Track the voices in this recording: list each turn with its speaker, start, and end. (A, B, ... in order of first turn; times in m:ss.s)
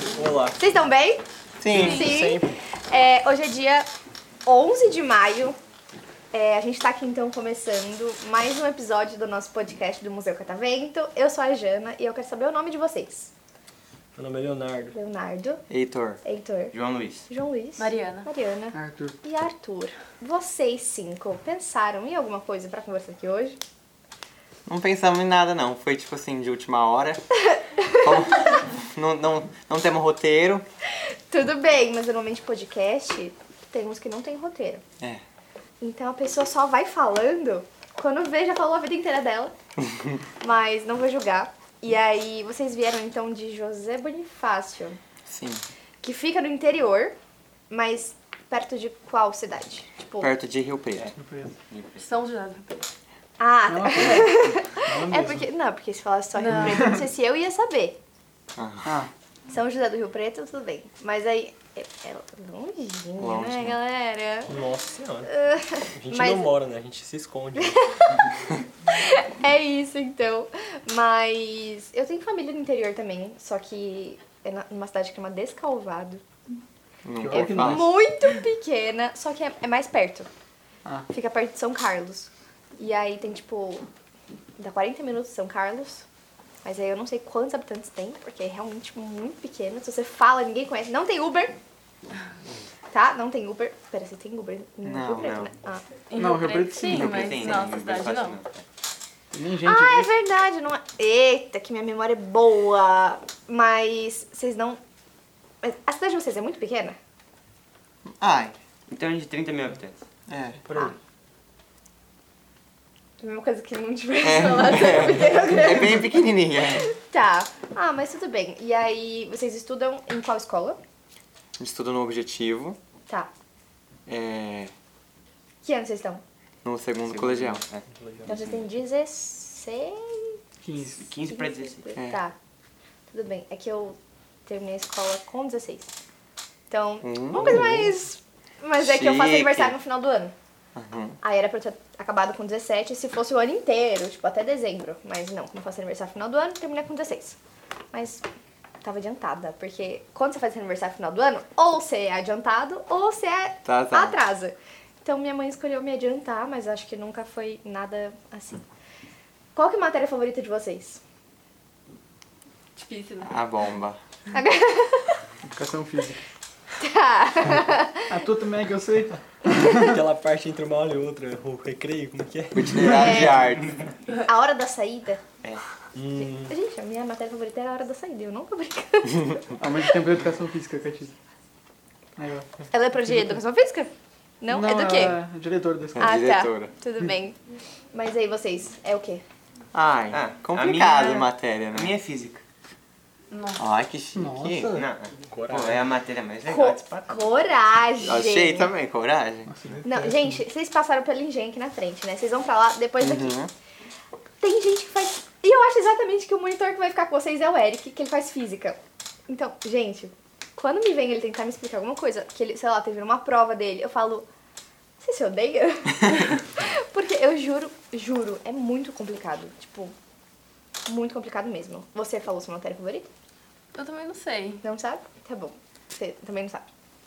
0:00.1-0:00.6 A
0:00.6-0:01.2 B
0:01.6-0:02.0 C
0:01.7-0:02.6 A
0:01.7-0:02.2 D
0:01.8-0:03.9 B
0:04.5-0:05.6 B
0:06.3-0:13.3 B
0:14.2-0:15.0 A
0:14.9-0:15.6 B
0:15.7-0:16.2 C
0:16.2-0:23.6 B
0:16.7-0:17.3 E
0:17.8-0:18.3 D
0:18.7-0:19.2 F
0:24.7-0:27.2 C
0:27.5-0:28.0 B
0:28.0-0:30.6 C
0:31.3-0:34.8 B
0:35.8-0:39.5 B
0:40.4-0:45.0 B
0:45.3-0:45.6 C
0:46.0-0:47.2 B
0:47.7-0:50.3 B
0:50.2-0:51.1 C
0:51.2-0:51.5 F
0:51.7-0:52.1 E
0:52.0-0:52.8 D
0:53.4-0:58.0 B
0:53.7-0:55.5 F
0:56.4-0:56.8 D
0:56.6-0:57.0 F
0:58.6-0:59.0 C
0:58.8-0:59.1 F
0:59.5-1:04.5 B
1:03.2-1:03.8 C
1:04.5-1:05.3 A
1:05.3-1:06.5 B
1:05.9-1:07.8 A
1:07.7-1:08.0 B
1:08.9-1:16.2 B
1:17.0-1:17.9 C
1:17.2-1:17.8 F
1:17.3-1:20.3 B
1:21.1-1:23.8 B
1:24.6-1:26.0 B
1:26.6-1:31.6 B
1:32.9-1:35.8 B
1:35.2-1:35.5 E
1:36.1-1:38.4 D
1:36.1-1:37.4 F
1:36.9-1:38.6 E
1:39.3-1:40.1 F
1:39.6-1:44.8 B
1:45.6-1:47.0 B
1:48.2-1:48.6 C
1:48.9-1:50.0 E
1:50.3-1:50.6 C
1:50.7-1:50.9 A
1:53.2-2:00.8 B
1:54.2-1:56.9 C
2:01.6-2:02.8 C
2:04.1-2:04.7 C
2:05.6-2:06.2 B
2:06.6-2:07.6 C
2:07.1-2:08.6 E
2:08.3-2:10.4 B
2:10.6-2:11.0 F
2:11.0-2:11.9 E
2:11.2-2:12.4 B
2:12.0-2:12.2 C
2:13.1-2:15.9 B
2:16.7-2:20.3 B
2:17.0-2:17.8 C
2:17.4-2:17.9 A
2:18.8-2:19.8 C
2:20.8-2:21.2 C
2:21.2-2:27.4 B
2:27.9-2:28.2 B
2:28.8-2:38.6 B
2:33.6-2:34.2 C
2:39.6-2:41.0 B
2:42.8-2:43.4 D
2:43.2-2:44.0 C
2:44.3-2:45.2 B
2:45.5-2:46.2 F
2:46.8-2:48.0 B
2:48.0-2:50.1 F
2:49.7-2:52.8 A
2:52.5-2:53.8 C
2:52.8-2:53.3 F
2:52.8-2:53.5 B
2:54.2-2:55.2 B
2:56.0-2:56.5 A
2:56.2-2:59.5 B
2:59.6-3:01.2 F
3:02.2-3:02.5 F
3:02.7-3:03.9 B
3:04.4-3:05.2 B
3:04.5-3:06.1 F
3:06.0-3:06.7 C
3:06.0-3:07.4 B
3:07.9-3:09.2 B
3:09.7-3:12.0 C
3:10.1-3:11.2 E
3:11.7-3:12.4 E
3:13.3-3:13.6 D
3:13.6-3:14.7 C
3:14.2-3:14.9 F
3:14.7-3:17.3 E
3:15.2-3:15.9 A
3:16.4-3:18.7 B
3:18.0-3:19.5 C
3:19.5-3:20.4 F
3:19.8-3:23.4 B
3:23.0-3:23.5 C
3:24.4-3:28.8 B
3:29.3-3:34.3 B
3:35.0-3:40.0 B
3:40.9-3:43.1 B
3:43.8-3:44.6 D
3:44.6-3:46.7 B